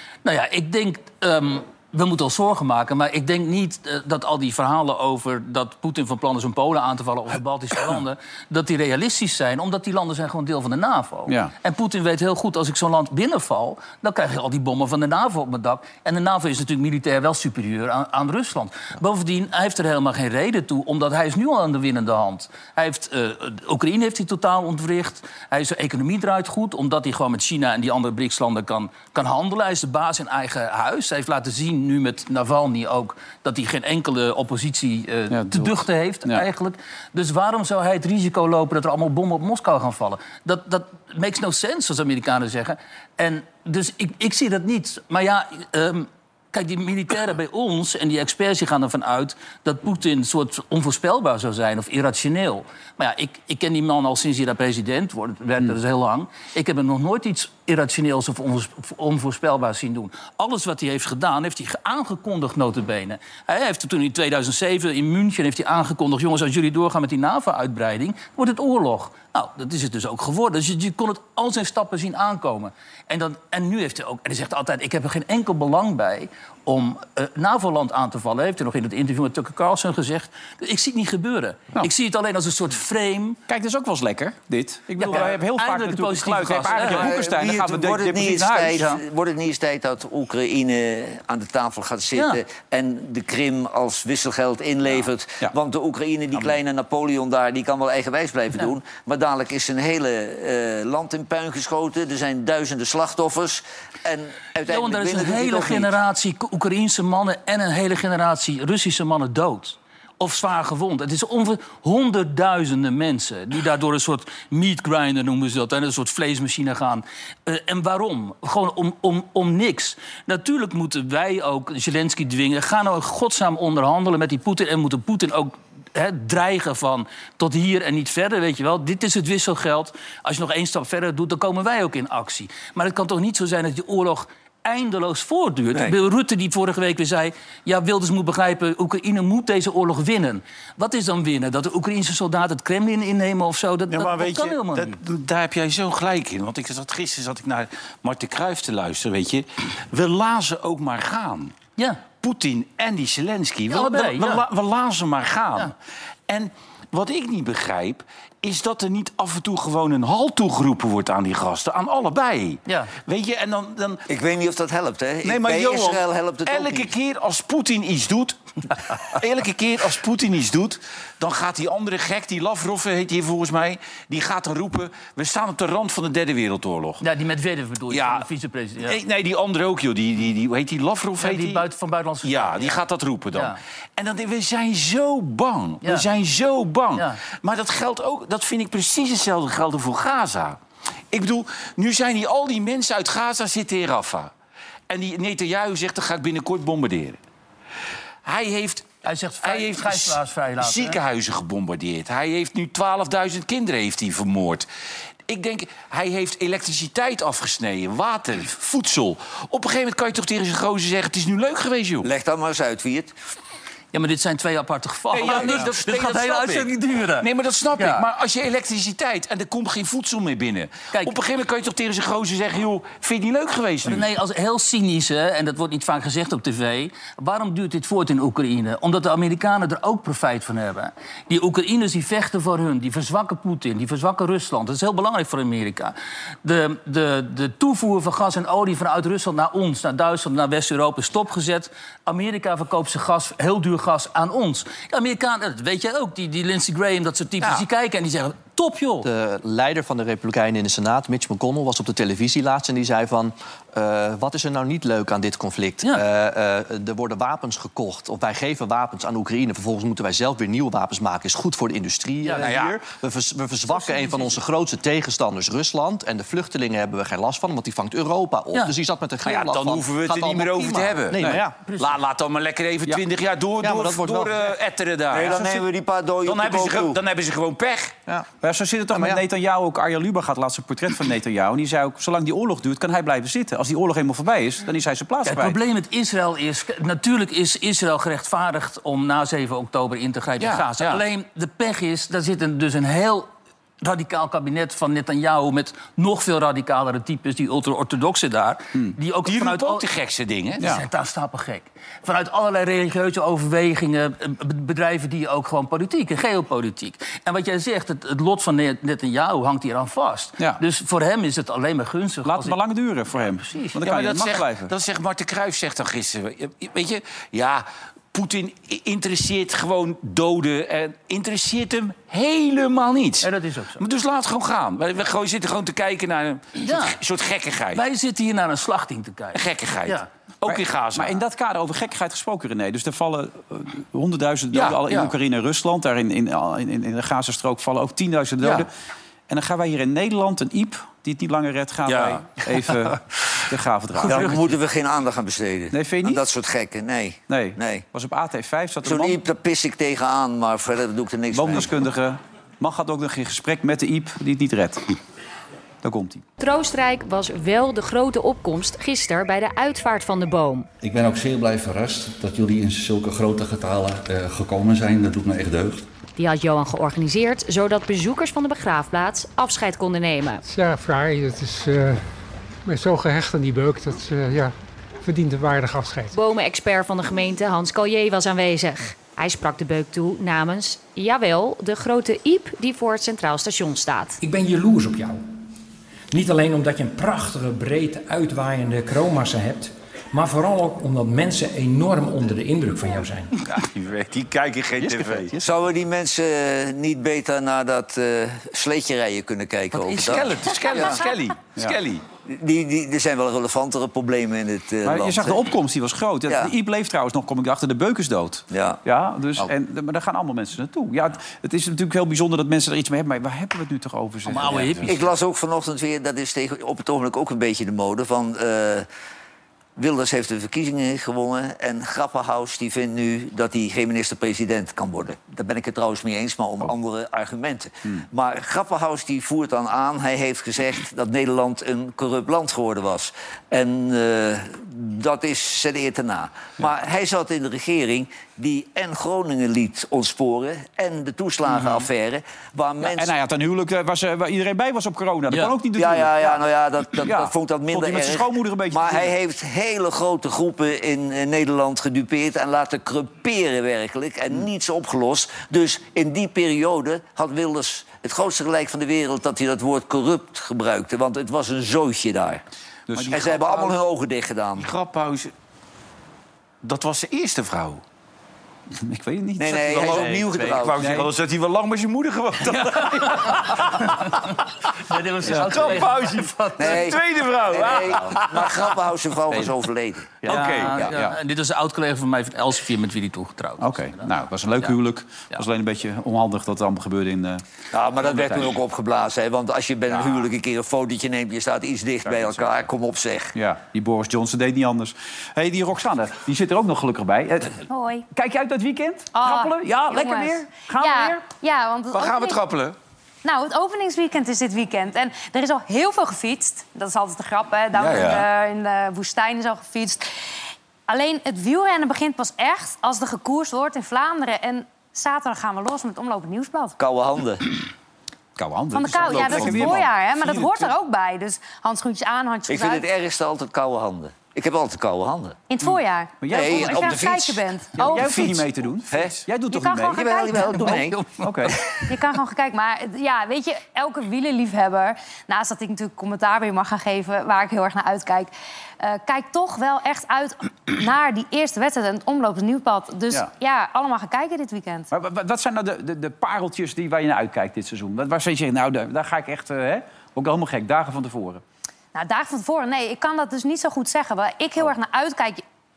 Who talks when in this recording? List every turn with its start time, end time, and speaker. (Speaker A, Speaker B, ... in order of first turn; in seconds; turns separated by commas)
Speaker A: 0.2-83.4, Speaker B: 11.3-11.5, Speaker B: 35.3-36.4, Speaker B: 83.5-88.9, Speaker A: 85.0-87.2, Speaker C: 86.8-106.0, Speaker A: 92.1-92.4, Speaker A: 104.7-145.0, Speaker D: 143.9-155.7, Speaker A: 151.8-152.1, Speaker A: 153.7-154.4, Speaker D: 156.3-164.0, Speaker A: 162.7-162.9, Speaker C: 164.1-166.9, Speaker D: 165.2-168.4, Speaker D: 168.9-177.0, Speaker A: 177.0-179.0, Speaker D: 177.9-178.2, Speaker D: 178.8-181.6, Speaker A: 181.2-183.6, Speaker D: 182.2-190.6, Speaker A: 185.8-186.1, Speaker A: 186.9-187.2, Speaker D: 191.1-194.3, Speaker D: 194.9-197.2, Speaker D: 198.2-204.7, Speaker A: 199.0-201.0, Speaker D: 205.3-212.1, Speaker C: 212.0-213.1, Speaker A: 213.9-218.1, Speaker D: 215.1-216.7, Speaker C: 215.3-215.6, Speaker D: 217.2-224.1, Speaker A: 223.8-249.1, Speaker E: 249.0-271.6, Speaker A: 262.2-262.5, Speaker D: 262.4-262.8, Speaker D: 269.2-275.6, Speaker A: 271.7-272.0, Speaker E: 273.6-274.5, Speaker C: 275.1-277.0, Speaker D: 276.2-277.9, Speaker B: 278.4-285.6, Speaker E: 278.9-279.2, Speaker A: 285.2-293.3, Speaker D: 290.4-291.0, Speaker A: 293.8-299.9, Speaker D: 299.2-300.6, Speaker A: 300.6-312.6, Speaker B: 312.2-314.7, Speaker A: 313.4-313.8, Speaker D: 313.8-327.8, Speaker A: 323.2-323.8, Speaker A: 326.6-327.0, Speaker A: 327.7-330.1, Speaker D: 329.3-331.2, Speaker B: 330.5-338.7, Speaker D: 334.5-335.1, Speaker B: 339.3-344.4, Speaker D: 341.9-342.9, Speaker C: 344.0-347.8, Speaker A: 344.0-344.3, Speaker B: 345.7-346.2, Speaker B: 347.3-349.2, Speaker C: 348.8-351.7, Speaker B: 351.3-354.9, Speaker B: 355.8-356.2, Speaker F: 356.4-360.7, Speaker G: 360.8-365.8, Speaker F: 366.2-370.4, Speaker H: 370.4-372.0, Speaker H: 372.6-376.1, Speaker F: 376.1-384.2, Speaker I: 384.2-385.2, Speaker I: 386.1-393.3, Speaker D: 393.4-395.4, Speaker E: 395.0-395.3, Speaker C: 395.4-401.0, Speaker D: 399.7-402.0, Speaker C: 402.3-405.4, Speaker B: 404.8-414.9, Speaker C: 408.5-408.8, Speaker A: 414.2-415.0, Speaker C: 414.9-418.9, Speaker C: 419.8-443.1, Speaker B: 442.8-446.4, Speaker C: 445.7-462.4, Speaker B: 447.0-449.1, Speaker B: 462.9-463.3, Speaker D: 462.9-463.7, Speaker C: 463.1-464.7, Speaker D: 464.6-465.3, Speaker D: 466.6-467.8, Speaker B: 468.7-471.1, Speaker C: 469.4-470.8, Speaker D: 469.7-474.0, Speaker A: 473.0-473.3, Speaker A: 473.9-474.2, Speaker A: 474.8-476.9, Speaker D: 475.3-478.7, Speaker C: 476.6-480.2, Speaker B: 480.2-481.2, Speaker A: 480.2-484.7, Speaker B: 483.6-487.4, Speaker C: 487.7-493.3, Speaker B: 488.0-488.5, Speaker B: 492.0-492.6, Speaker B: 493.3-501.2, Speaker J: 497.7-498.1, Speaker J: 499.1-502.4, Speaker D: 501.9-502.8, Speaker J: 503.2-510.1, Speaker D: 507.7-508.3, Speaker J: 510.9-516.8, Speaker C: 516.8-517.5, Speaker B: 518.4-520.7, Speaker J: 518.7-522.8, Speaker C: 522.5-525.4, Speaker J: 525.5-528.3, Speaker B: 526.2-527.1, Speaker C: 526.3-527.5, Speaker B: 527.8-530.1, Speaker C: 528.0-528.4, Speaker C: 528.9-529.2, Speaker J: 529.5-530.8, Speaker C: 529.9-531.8, Speaker A: 530.6-531.2, Speaker B: 531.2-531.6, Speaker J: 531.8-544.9, Speaker B: 544.9-551.4, Speaker J: 551.9-555.4